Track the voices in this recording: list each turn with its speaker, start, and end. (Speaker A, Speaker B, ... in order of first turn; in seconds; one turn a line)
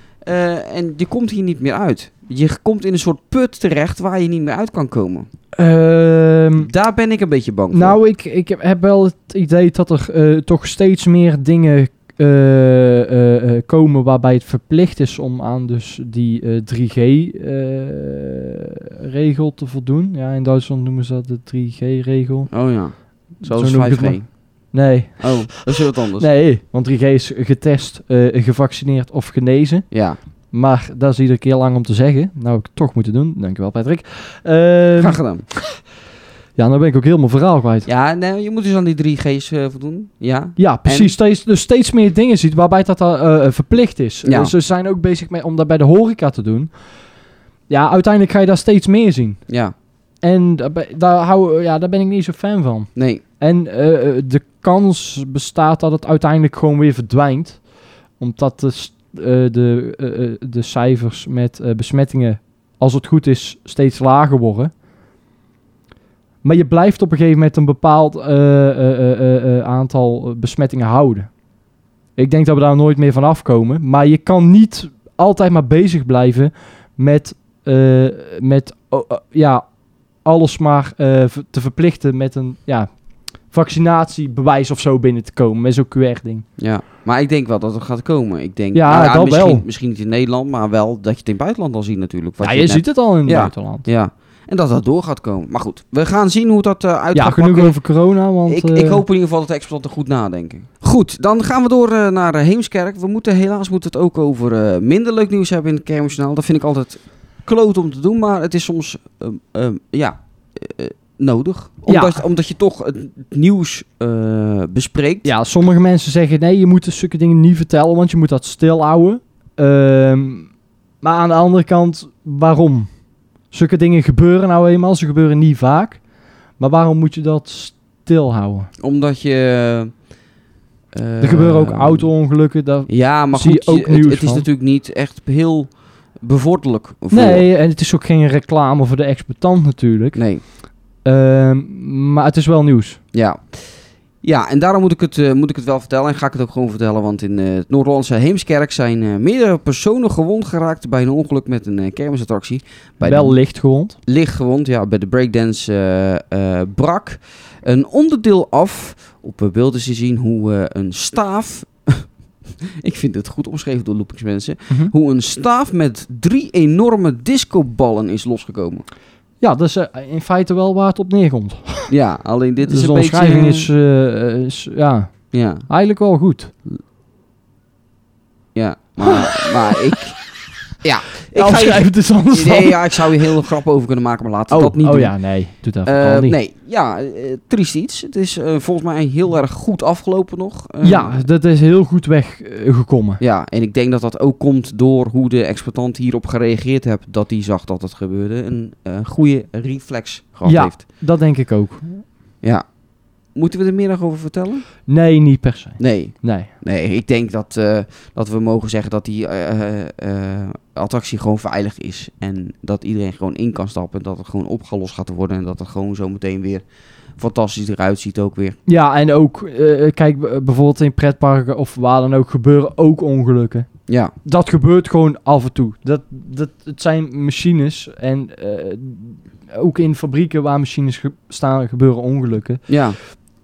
Speaker A: 0.2-5.3
Speaker B: 5.6-6.7
Speaker A: 6.6-8.0
Speaker B: 7.7-22.5
Speaker A: 22.5-24.3
Speaker B: 23.4-29.9
Speaker A: 25.2-26.3
Speaker A: 29.9-30.2
Speaker B: 30.5-35.2
Speaker A: 35.0-35.5
Speaker B: 36.6-37.9
Speaker A: 37.9-41.1
Speaker B: 40.6-46.8
Speaker A: 44.2-44.5
Speaker B: 47.7-49.4
Speaker A: 49.5-49.7
Speaker B: 50.2-57.6
Speaker A: 53.0-53.2
Speaker B: 58.2-64.7
Speaker B: 66.4-71.3
Speaker B: 72.2-86.5
Speaker A: 86.6-97.8
Speaker B: 88.7-89.7
Speaker B: 92.4-93.9
Speaker B: 97.2-99.0
Speaker A: 98.5-115.3
Speaker B: 111.9-112.2
Speaker B: 115.2-122.9
Speaker B: 123.5-126.0
Speaker B: 126.6-128.7
Speaker A: 128.8-129.9
Speaker A: 130.9-132.1
Speaker B: 131.2-134.5
Speaker A: 132.9-137.4
Speaker B: 137.1-143.0
Speaker A: 140.1-140.4
Speaker A: 143.1-153.4
Speaker B: 153.0-154.0
Speaker A: 154.1-162.1
Speaker A: 162.6-168.8
Speaker B: 169.4-171.9
Speaker A: 171.9-173.7
Speaker B: 172.6-176.5
Speaker A: 175.3-175.7
Speaker A: 178.6-180.2
Speaker A: 180.8-185.3
Speaker B: 181.3-183.1
Speaker B: 184.5-186.4
Speaker A: 185.8-191.2
Speaker B: 190.8-193.2
Speaker A: 193.2-200.8
Speaker B: 200.4-202.1
Speaker A: 203.3-204.7
Speaker B: 204.9-206.5
Speaker A: 205.8-216.7
Speaker A: 217.2-218.6
Speaker B: 218.7-223.7
Speaker A: 223.9-224.1
Speaker B: 224.2-232.7
Speaker A: 232.7-233.0